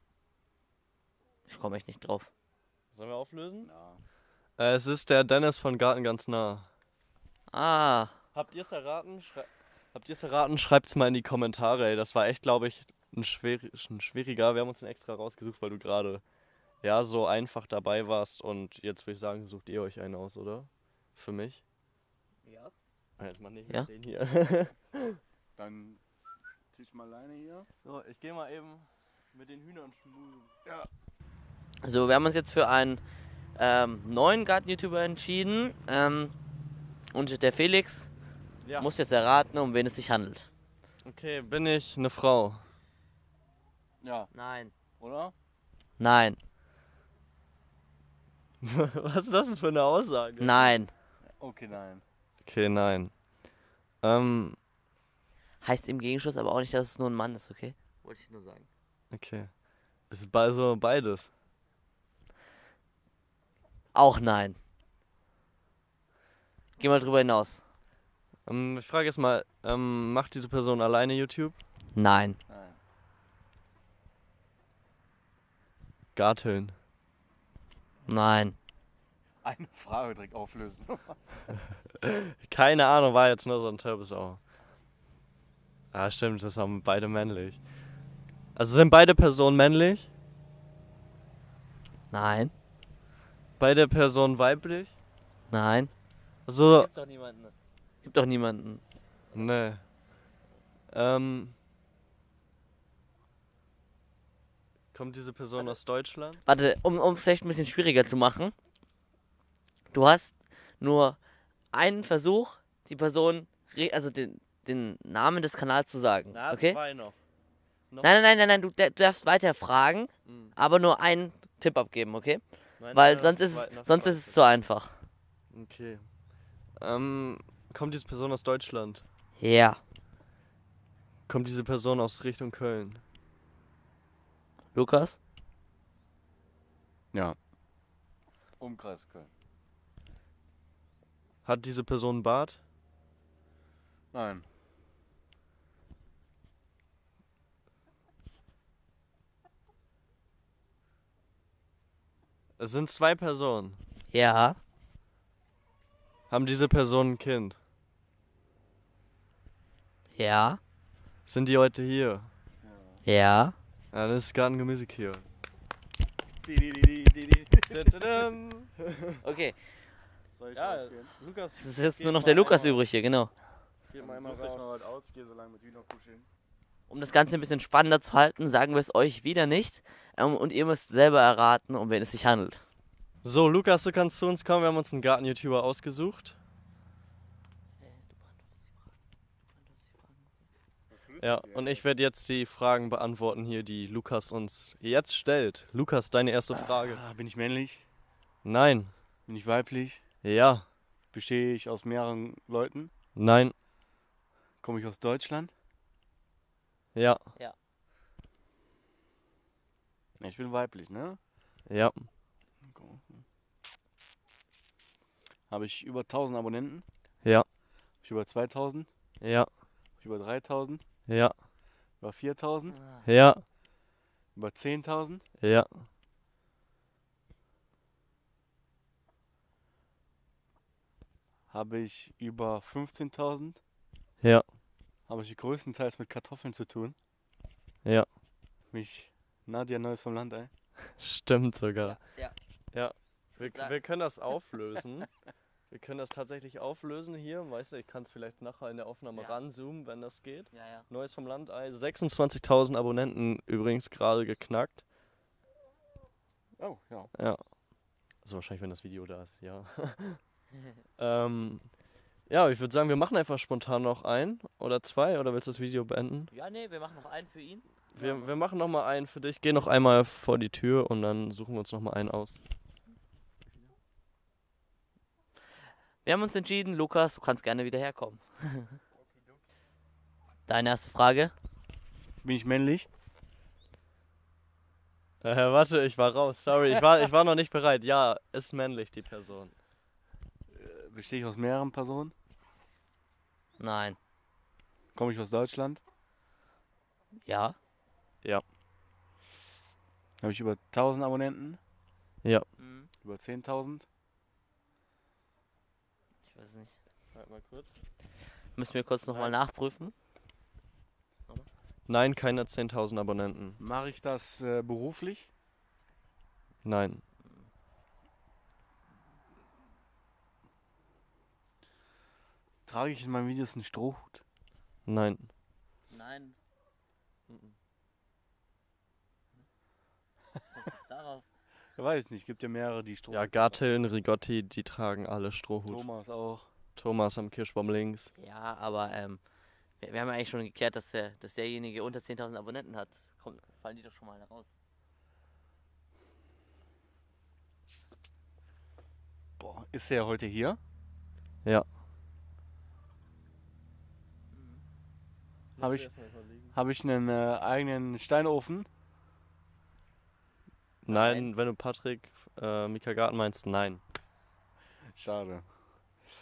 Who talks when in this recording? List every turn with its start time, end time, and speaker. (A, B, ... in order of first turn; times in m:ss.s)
0:01.5-0:02.3 A
0:02.9-0:03.7 B
0:03.6-0:04.0 C
0:04.6-0:06.7 B
0:07.5-0:08.1 A
0:08.3-0:16.2 B
0:16.8-0:21.6 B
0:22.4-0:22.7 A
0:23.2-0:25.2 B
0:25.6-0:26.0 C
0:26.7-0:27.7 C
0:27.8-0:30.5 B
0:31.8-0:33.0 A
0:33.5-0:36.3 A
0:37.1-0:38.1 A
0:38.6-0:38.9 B
0:38.8-0:40.5 A
0:41.0-0:42.6 B
0:44.0-0:44.3 C
0:44.3-0:44.7 A
0:45.0-0:45.3 C
0:46.0-0:46.4 A
0:48.6-0:50.8 B
0:50.4-0:50.9 A
0:51.2-0:52.0 C
0:52.4-0:53.2 B
0:54.0-0:54.6 B
0:55.6-0:58.7 A
0:59.1-1:01.3 B
1:03.9-1:04.6 A
1:06.8-1:07.6 A
1:08.4-1:11.6 B
1:11.9-1:12.4 A
1:12.5-1:12.8 C
1:16.1-1:16.7 B
1:18.0-1:18.6 A
1:19.4-1:21.5 C
1:22.4-1:24.4 B
1:25.9-1:27.7 B
1:28.5-1:30.1 B
1:32.1-1:32.5 A
1:33.6-1:34.9 B
1:35.5-1:35.9 A
1:36.4-1:36.9 B
1:36.7-1:39.5 A
1:39.3-1:40.0 B
1:40.9-1:41.6 B
1:44.9-1:46.4 B
1:46.4-1:48.5 A
1:49.9-1:51.2 A
1:51.7-1:56.8 A
1:56.3-1:57.2 B
1:57.9-1:58.2 B
1:58.0-2:05.0 A
2:00.2-2:00.5 B
2:02.8-2:04.4 B
2:05.5-2:06.1 B
2:06.8-2:09.0 B
2:09.4-2:09.8 A
2:11.3-2:13.0 B
2:14.7-2:15.2 A
2:18.6-2:19.3 C
2:21.4-2:22.6 B
2:24.1-2:24.4 C
2:32.6-2:33.8 B
2:34.1-2:34.6 A
2:36.3-2:37.6 B
2:40.1-2:40.6 A
2:41.2-2:42.3 B
2:42.6-2:43.0 C
2:43.0-2:43.5 A
2:43.9-2:45.3 B
2:46.4-2:48.2 C
2:47.7-2:49.2 B
2:49.2-2:49.8 A
2:50.3-2:51.1 C
2:50.5-2:52.8 B
2:51.6-2:53.3 A
2:53.9-2:54.7 B
2:54.0-2:56.3 C
2:56.9-3:02.6 A
3:03.2-3:06.4 B
3:07.8-3:08.9 A
3:09.5-3:10.3 A
3:10.9-3:11.8 C
3:11.2-3:17.0 B
3:16.5-3:17.8 C
3:18.4-3:18.9 B
3:19.3-3:20.0 C
3:20.2-3:20.7 B
3:21.1-3:22.9 C
3:23.1-3:23.6 B
3:24.6-3:25.5 C
3:26.9-3:27.2 B
3:30.2-3:31.2 C
3:31.7-3:32.1 B
3:32.7-3:33.2 C
3:35.5-3:36.8 C
3:38.0-3:38.9 C
3:39.2-3:39.5 B
3:40.0-3:40.8 C
3:41.1-3:41.4 B
3:42.0-3:42.8 C
3:42.8-3:43.0 A
3:43.0-3:43.4 B
3:44.3-3:45.2 C
3:45.4-3:45.8 B
3:51.5-3:53.6 C
3:54.2-3:54.5 B
3:55.1-3:57.0 C
3:58.7-4:00.5 C
4:01.0-4:02.1 B
4:01.8-4:02.3 A
4:02.7-4:14.8 B
4:03.4-4:03.7 A
4:09.1-4:09.4 A
4:10.5-4:10.9 A
4:16.6-4:17.1 C
4:17.1-4:20.4 B
4:21.0-4:26.3 B
4:26.3-4:27.6 A
4:27.9-4:32.4 B
4:36.0-4:38.8 A
4:40.5-4:41.3 A
4:42.2-4:42.9 C
4:45.2-4:49.6 B
4:50.5-4:52.1 C
4:53.6-4:54.0 A
4:54.9-4:55.8 C
4:57.2-4:57.6 A
5:00.2-5:01.6 C
5:02.6-5:02.9 A
5:03.0-5:03.8 C
5:06.3-5:06.8 A
5:07.1-5:07.8 B
5:08.5-5:09.9 A
5:09.1-5:09.3 B
5:11.9-5:13.6 B
5:13.6-5:15.3 C
5:16.6-5:17.0 B
5:22.6-5:24.2 C
5:24.8-5:25.3 B
5:25.9-5:26.4 A
5:27.3-5:27.6 B
5:30.5-5:31.2 A
5:31.8-5:33.6 C
5:33.1-5:35.9 B
5:35.6-5:36.5 C
5:36.8-5:38.1 B
5:38.2-5:39.2 A
5:39.8-5:44.5 A
5:49.4-5:50.6 C
5:54.3-5:54.6 A
5:55.6-5:56.6 B
5:55.6-5:55.9 C
5:56.4-5:58.7 C
6:00.8-6:03.8 B
6:00.9-6:01.3 A
6:04.9-6:05.4 C